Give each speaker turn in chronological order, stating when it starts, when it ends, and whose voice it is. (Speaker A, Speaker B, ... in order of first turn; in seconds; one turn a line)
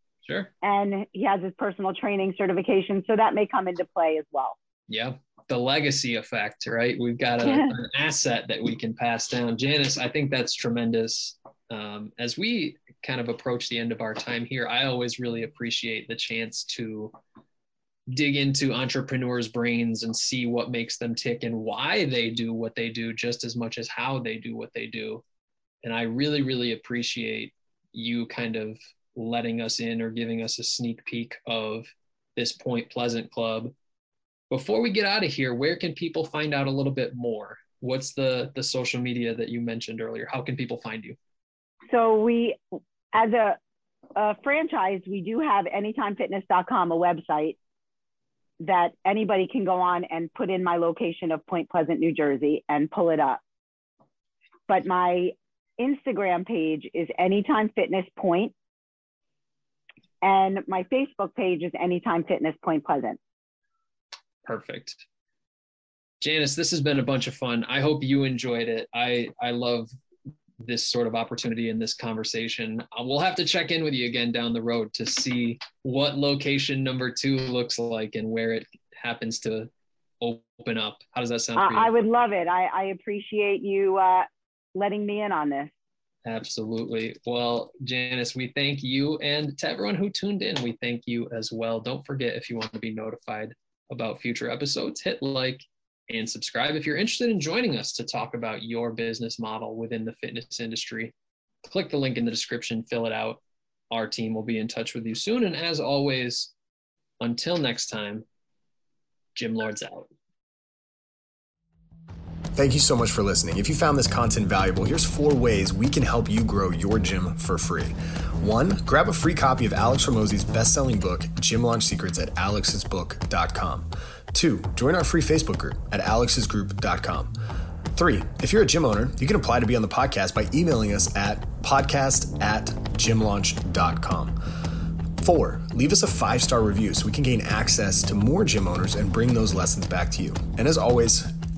Speaker A: 0.2-0.5
Speaker B: 0.6-4.5
Speaker A: 4.9-17.2
Speaker B: 7.5-7.7
Speaker A: 18.1-25.2
Speaker A: 25.8-33.7
Speaker A: 34.5-41.2
Speaker B: 41.9-43.6
Speaker B: 44.2-47.6
Speaker B: 48.6-53.4
Speaker B: 54.7-58.5
Speaker B: 60.2-63.2
Speaker A: 64.5-65.0
Speaker A: 66.2-69.9
Speaker A: 70.6-79.7
Speaker A: 80.2-82.0
Speaker B: 81.6-85.7
Speaker A: 86.2-101.1
Speaker A: 101.7-106.5
Speaker A: 107.2-108.2
Speaker A: 109.4-110.1
Speaker C: 112.5-127.4
Speaker C: 128.0-134.4
Speaker C: 135.2-141.3